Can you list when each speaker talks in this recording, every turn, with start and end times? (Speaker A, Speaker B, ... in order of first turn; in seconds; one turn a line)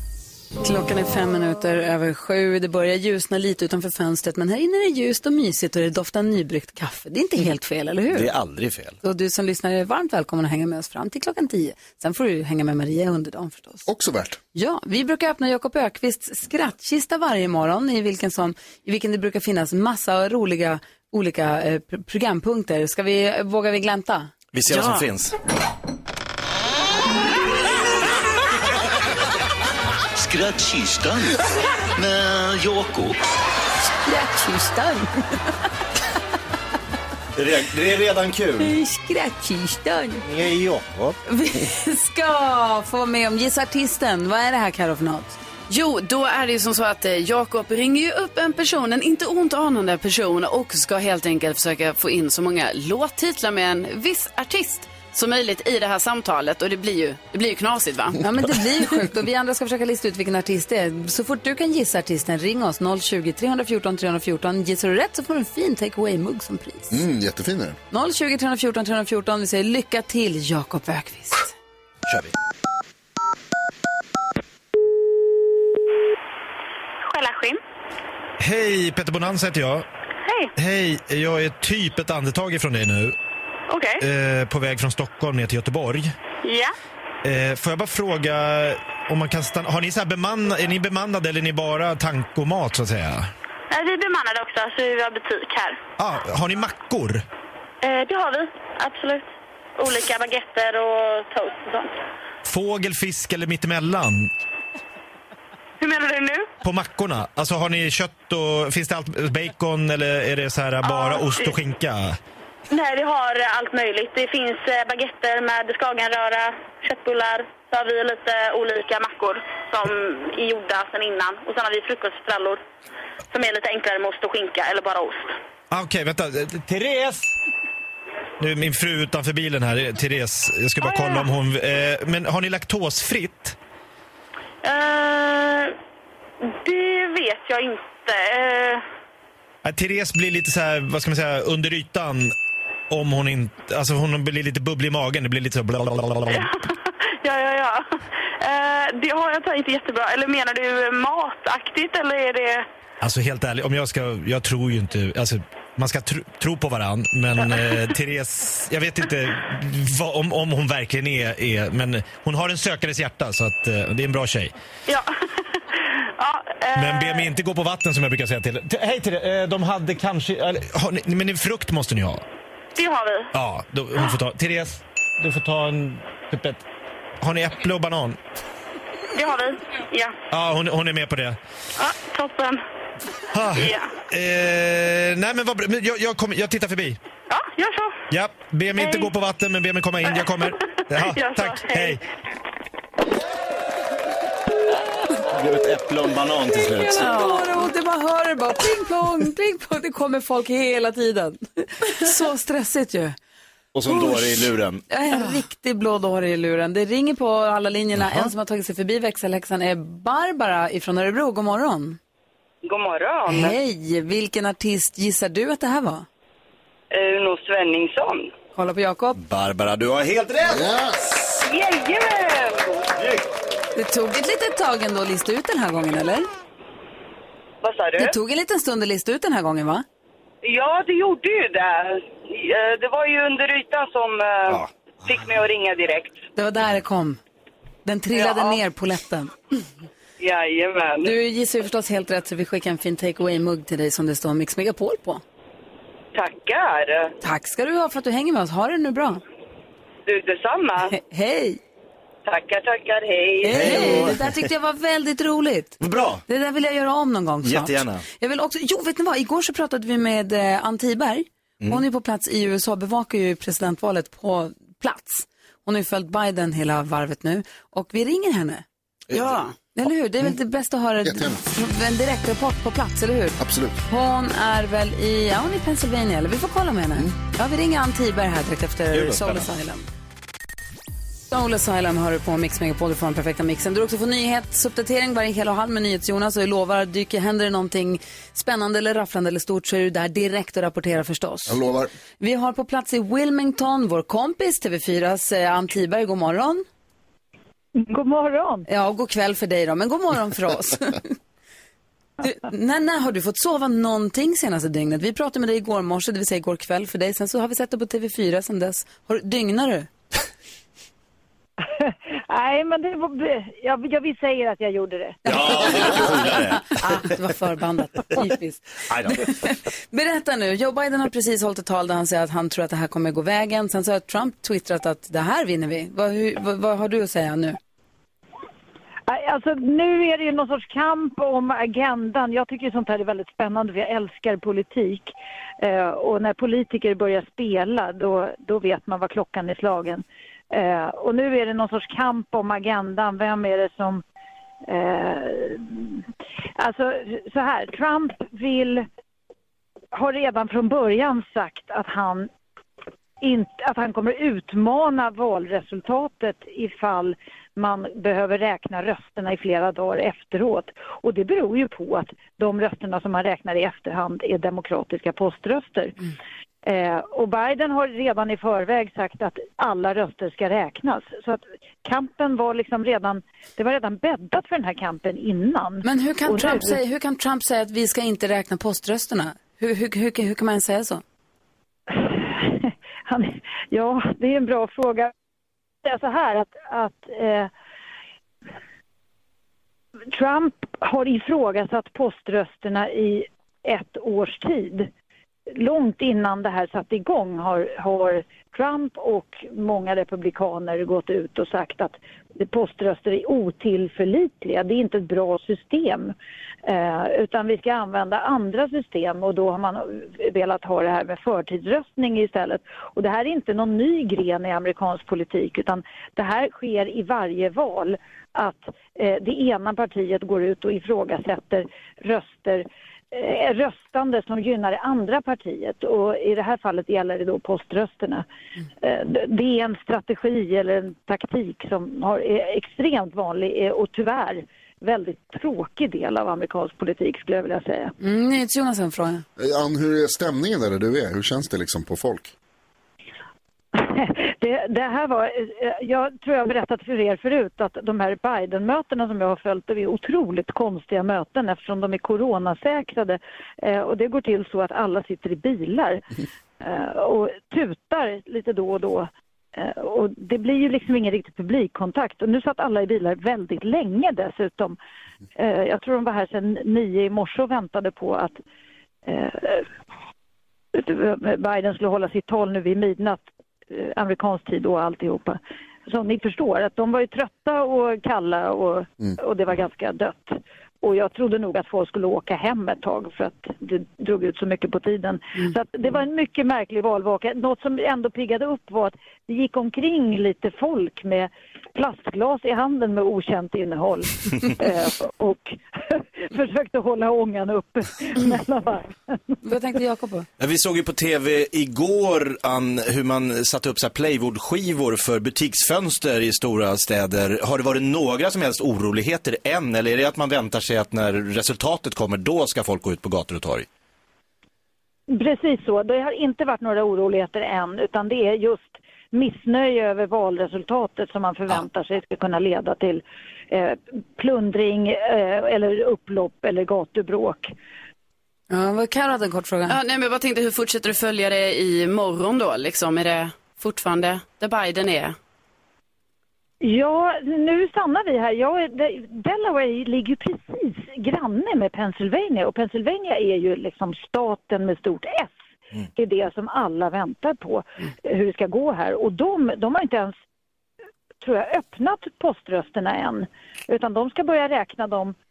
Speaker A: 0.6-8.3
Speaker B: 8.1-9.0
Speaker A: 9.0-13.9
Speaker C: 13.9-14.4
Speaker A: 14.5-24.3
Speaker B: 24.5-25.4
Speaker D: 30.2-31.3
Speaker D: 32.0-33.1
Speaker A: 34.0-35.5
Speaker B: 37.4-38.7
Speaker A: 38.6-40.2
Speaker B: 40.2-41.2
Speaker A: 41.2-45.4
Speaker E: 45.7-58.2
Speaker A: 58.2-67.0
Speaker C: 66.9-67.8
Speaker A: 67.9-71.5
Speaker B: 72.1-72.3
Speaker F: 77.0-77.6
Speaker G: 78.4-79.8
Speaker F: 80.2-80.5
Speaker G: 80.6-83.2
Speaker F: 83.7-84.0
Speaker G: 84.0-86.1
Speaker F: 86.4-86.7
Speaker G: 87.2-93.3
Speaker F: 93.7-95.8
Speaker G: 96.0-97.2
Speaker F: 97.8-101.9
Speaker G: 102.4-104.3
Speaker F: 105.8-106.5
Speaker G: 106.6-112.2
Speaker F: 110.8-111.6
Speaker F: 112.7-122.6
Speaker F: 123.3-125.3
Speaker G: 125.7-127.3
Speaker G: 128.4-133.6
Speaker F: 130.8-131.3
Speaker F: 134.6-135.8
Speaker F: 136.4-138.8
Speaker G: 139.6-142.3
Speaker G: 142.9-146.5
Speaker F: 146.3-152.7
Speaker G: 153.0-164.5
Speaker F: 166.0-167.3
Speaker G: 166.7-172.2
Speaker F: 172.7-173.3
Speaker G: 173.3-176.6
Speaker G: 177.2-178.2
Speaker F: 179.1-180.2
Speaker G: 180.3-181.4
Speaker F: 181.8-182.6
Speaker G: 183.3-187.0
Speaker F: 183.5-183.9
Speaker F: 187.3-188.0
Speaker G: 188.1-192.0
Speaker F: 188.7-189.1
Speaker F: 191.0-192.0
Speaker B: 195.3-197.1
Speaker A: 196.8-203.2
Speaker B: 203.7-204.8
Speaker A: 203.9-212.0
Speaker H: 212.6-213.6
Speaker A: 213.3-216.1
Speaker H: 216.9-218.3
Speaker A: 218.5-219.2
Speaker B: 219.2-220.7
Speaker C: 220.4-221.4
Speaker H: 221.4-222.9
Speaker B: 223.0-223.2
Speaker A: 223.8-226.3
Speaker H: 227.6-228.1
Speaker A: 228.0-229.8
Speaker H: 230.4-236.2
Speaker A: 236.3-237.2
Speaker A: 237.8-239.3
Speaker H: 238.1-238.6
Speaker H: 240.2-241.1
Speaker A: 241.0-245.2
Speaker H: 246.1-247.1
Speaker A: 247.2-249.2
Speaker H: 250.1-250.9
Speaker A: 250.9-251.6
Speaker H: 252.2-254.0
Speaker A: 253.4-268.6
Speaker B: 253.5-254.4
Speaker B: 255.8-256.2
Speaker B: 257.4-258.0
Speaker B: 269.1-269.4
Speaker E: 269.1-269.5
Speaker A: 269.7-279.8
Speaker C: 271.0-271.4
Speaker C: 273.4-273.8
Speaker B: 278.9-279.5
Speaker A: 281.3-291.6
Speaker C: 291.5-291.9
Speaker A: 292.2-296.6
Speaker I: 297.7-298.6
Speaker A: 298.7-301.1
Speaker A: 302.2-309.9
Speaker I: 311.6-315.4
Speaker B: 315.2-317.1
Speaker A: 315.3-327.6
Speaker B: 318.9-319.3
Speaker I: 329.1-344.0
Speaker I: 344.7-346.0
Speaker I: 346.6-348.9
Speaker I: 349.9-352.3
Speaker I: 353.2-365.9
Speaker I: 366.6-376.8
Speaker A: 375.8-381.0
Speaker I: 381.9-385.1
Speaker I: 385.8-387.5
Speaker I: 390.1-394.9
Speaker I: 395.5-406.1
Speaker I: 406.6-428.2
Speaker I: 428.8-437.9
Speaker A: 438.0-439.2
Speaker C: 439.4-442.3
Speaker I: 443.7-456.0
Speaker I: 456.6-464.8
Speaker I: 465.4-468.4
Speaker I: 469.1-469.7
Speaker I: 470.7-499.4
Speaker A: 499.4-500.3
Speaker B: 500.4-513.7
Speaker I: 515.1-527.5
Speaker A: 528.5-529.8
Speaker E: 529.7-535.1
Speaker I: 536.6-545.3
Speaker I: 545.9-550.1
Speaker I: 551.2-555.1